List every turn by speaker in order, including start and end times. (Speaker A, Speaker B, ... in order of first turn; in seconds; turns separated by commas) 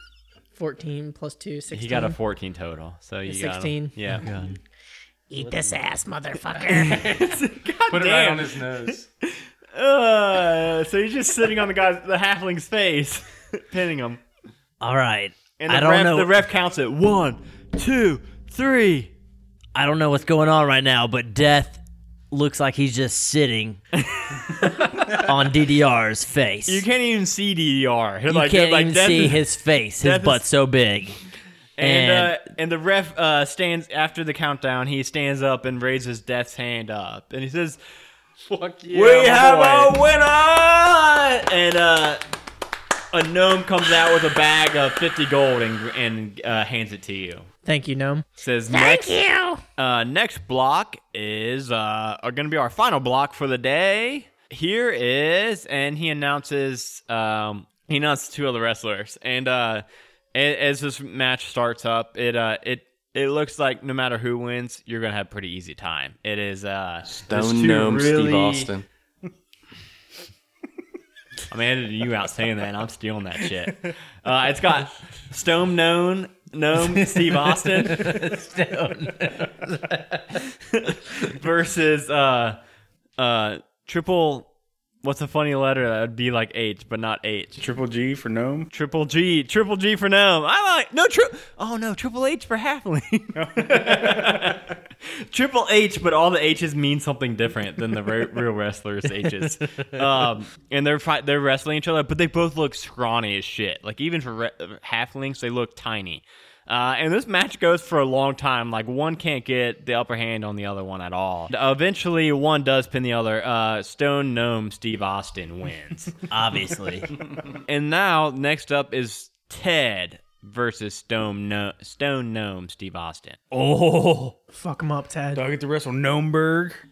Speaker A: 0.6-2.2, Speaker B: 1.7-4.3, Speaker A: 3.3-3.9, Speaker C: 4.1-4.6, Speaker D: 5.3-7.1, Speaker B: 6.7-14.2, Speaker E: 7.9-9.1, Speaker C: 14.8-16.3, Speaker B: 15.6-19.1, Speaker C: 19.7-23.8, Speaker B: 24.0-25.3, Speaker C: 25.0-26.8, Speaker B: 26.7-29.4, Speaker C: 28.3-31.2, Speaker B: 30.0-30.5, Speaker B: 31.8-37.8, Speaker C: 31.8-32.4, Speaker E: 38.5-40.0, Speaker B: 38.9-42.2, Speaker B: 43.1-47.5, Speaker A: 47.6-48.3, Speaker B: 48.4-49.2, Speaker D: 48.7-49.6, Speaker B: 49.8-68.7, Speaker E: 67.1-68.8, Speaker B: 71.5-78.3, Speaker C: 76.8-80.4, Speaker B: 80.5-82.6, Speaker B: 83.2-84.5, Speaker B: 85.0-87.6, Speaker F: 87.6-88.7, Speaker B: 88.7-94.8, Speaker F: 93.3-94.6, Speaker B: 95.3-116.1, Speaker C: 116.3-117.1, Speaker B: 117.7-123.4, Speaker C: 123.5-124.3, Speaker A: 124.5-125.4, Speaker F: 125.3-126.8